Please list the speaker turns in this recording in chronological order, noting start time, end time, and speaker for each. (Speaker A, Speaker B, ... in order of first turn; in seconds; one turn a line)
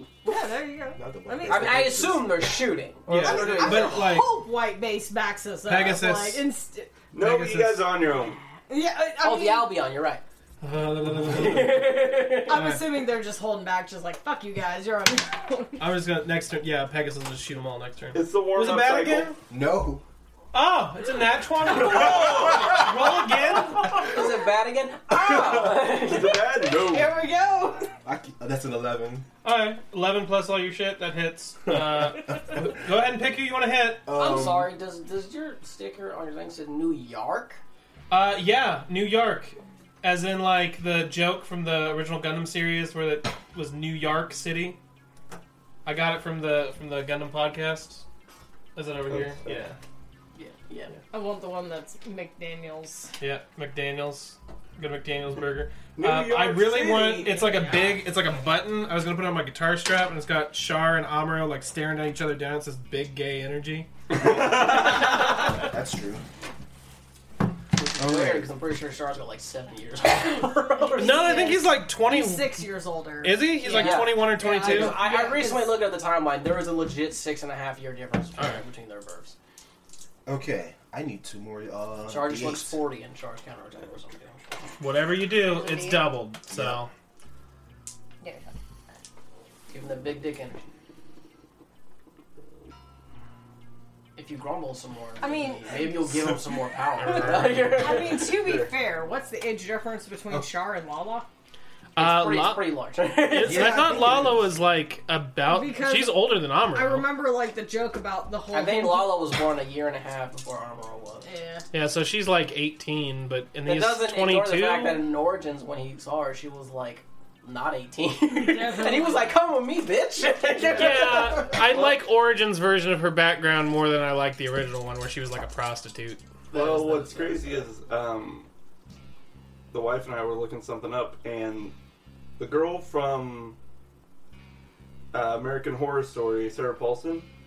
Speaker A: 0.2-2.0
Speaker B: 0.9-2.5
Speaker C: 1.4-4.2
Speaker D: 3.1-4.4
Speaker A: 3.1-7.0
Speaker D: 5.6-6.4
Speaker E: 7.1-8.4
Speaker D: 7.1-7.9
Speaker A: 8.6-9.8
Speaker C: 9.2-10.2
Speaker D: 10.6-13.0
Speaker C: 11.1-12.7
Speaker A: 12.4-15.8
Speaker D: 15.8-19.4
Speaker E: 18.1-19.3
Speaker B: 19.5-20.0
Speaker D: 20.5-24.1
Speaker E: 21.8-22.8
Speaker C: 24.0-26.4
Speaker E: 25.3-27.2
Speaker A: 26.7-27.9
Speaker B: 28.0-29.2
Speaker D: 29.4-34.1
Speaker B: 31.7-32.7
Speaker B: 34.0-34.7
Speaker C: 34.1-37.6
Speaker D: 38.1-44.8
Speaker D: 45.8-48.0
Speaker D: 48.7-49.8
Speaker E: 49.1-49.6
Speaker C: 50.4-50.9
Speaker A: 51.1-53.1
Speaker D: 53.2-63.9
Speaker E: 55.9-57.5
Speaker A: 57.4-57.9
Speaker B: 64.1-66.2
Speaker E: 64.2-65.3
Speaker C: 67.8-71.5
Speaker B: 68.0-68.5
Speaker A: 70.9-75.8
Speaker D: 71.0-72.7
Speaker D: 73.2-75.0
Speaker C: 73.6-79.3
Speaker B: 80.2-82.8
Speaker C: 82.0-84.8
Speaker D: 84.8-86.9
Speaker A: 85.4-86.2
Speaker B: 86.5-86.8
Speaker A: 88.2-88.5
Speaker C: 89.7-90.6
Speaker C: 94.2-98.3
Speaker A: 95.2-96.3
Speaker A: 97.0-101.3
Speaker D: 97.0-97.7
Speaker E: 98.2-98.7
Speaker D: 102.0-102.8
Speaker C: 102.0-104.3
Speaker D: 103.3-107.1
Speaker B: 103.4-104.5
Speaker A: 105.4-109.2
Speaker C: 108.5-111.3
Speaker A: 111.2-111.7
Speaker D: 111.7-115.0
Speaker C: 113.6-121.9
Speaker A: 118.3-119.3
Speaker D: 120.7-126.2
Speaker E: 126.5-128.5
Speaker C: 126.5-127.7
Speaker E: 129.7-131.7
Speaker E: 132.4-133.6
Speaker E: 135.1-137.3